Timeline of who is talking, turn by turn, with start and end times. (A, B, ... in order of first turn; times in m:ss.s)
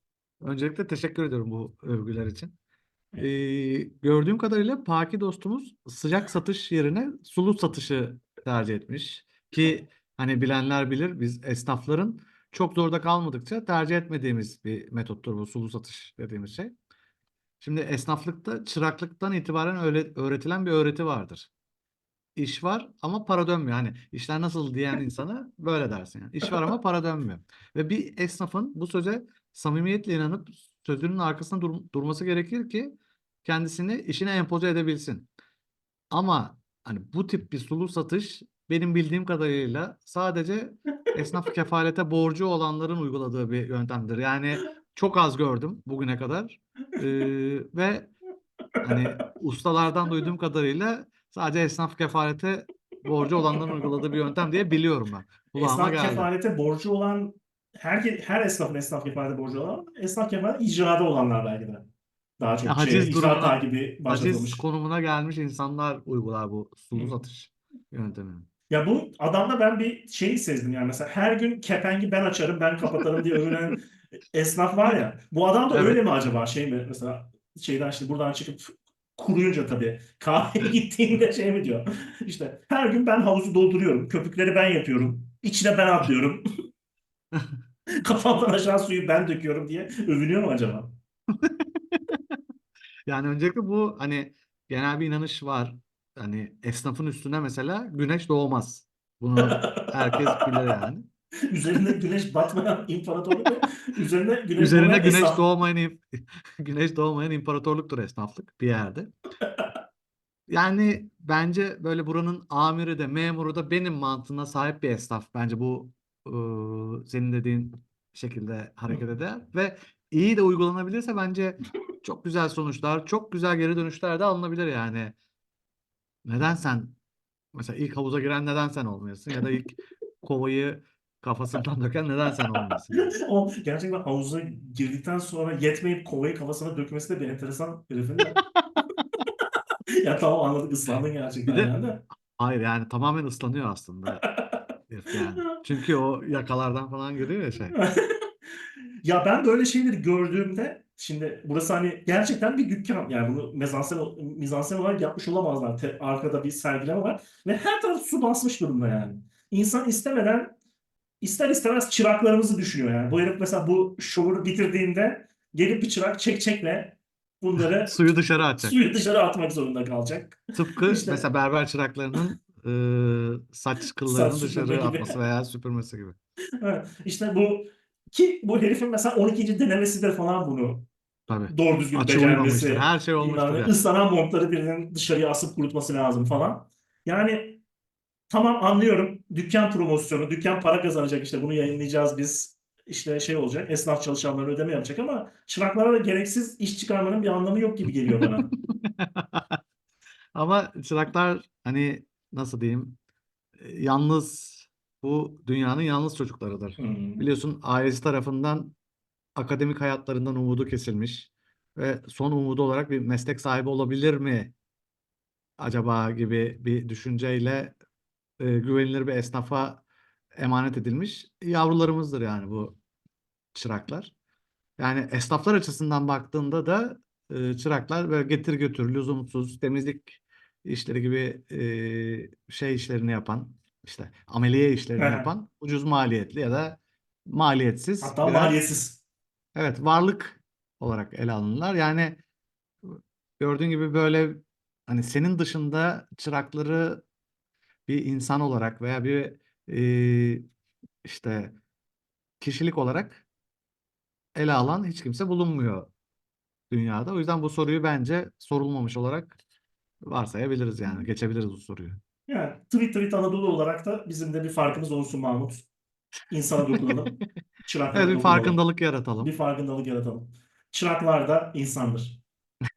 0:00.4-0:02.5 A
0:03.2-0:16.7 A
0:17.6-0:21.5 A
0:22.4-0:35.3 A
0:36.1-0:48.1 A
0:48.8-0:56.3 A
0:55.6-1:04.6 B
1:02.6-1:08.5 A
1:08.7-1:13.8 B
1:14.3-1:26.4 B
1:15.7-1:16.0 A
1:28.0-1:31.0 B
1:31.4-1:32.2 A
1:33.1-1:41.1 A
1:39.4-1:40.3 B
1:41.5-1:45.4 B
1:44.6-1:49.1 A
1:50.5-2:05.2 A
2:06.2-2:07.0 A
2:07.5-2:13.1 A
2:12.6-2:18.4 B
2:18.4-2:18.8 A
2:20.0-2:22.0 B
2:21.5-2:21.8 A
2:22.3-2:24.2 A
2:24.2-2:24.6 B
2:24.9-2:27.8 A
2:29.0-2:40.5 B
2:41.2-2:51.2 B
2:47.8-2:48.8 A
2:50.5-2:56.2 A
2:54.0-2:55.2 B
2:56.6-3:00.9 B
3:01.3-3:03.7 A
3:01.5-3:07.6 B
3:08.3-3:18.5 B
3:18.2-3:19.6 A
3:20.3-3:23.0 A
3:23.6-3:28.8 A
3:26.8-3:27.2 B
3:29.4-3:34.5 A
3:35.6-3:37.8 A
3:38.4-3:39.8 A
3:40.4-3:42.8 A
3:43.5-3:44.1 A
3:44.8-3:58.6 A
3:55.0-3:55.3 B
3:58.0-3:59.0 B
3:59.5-4:02.2 A
4:02.8-4:07.0 A
4:07.9-4:10.5 A
4:11.0-4:11.6 A
4:12.4-4:13.2 A
4:14.4-4:15.9 A
4:16.7-4:19.4 A
4:20.0-4:22.0 A
4:22.3-4:25.7 B
4:26.3-4:28.6 B
4:27.9-4:29.3 A
4:29.2-4:32.2 B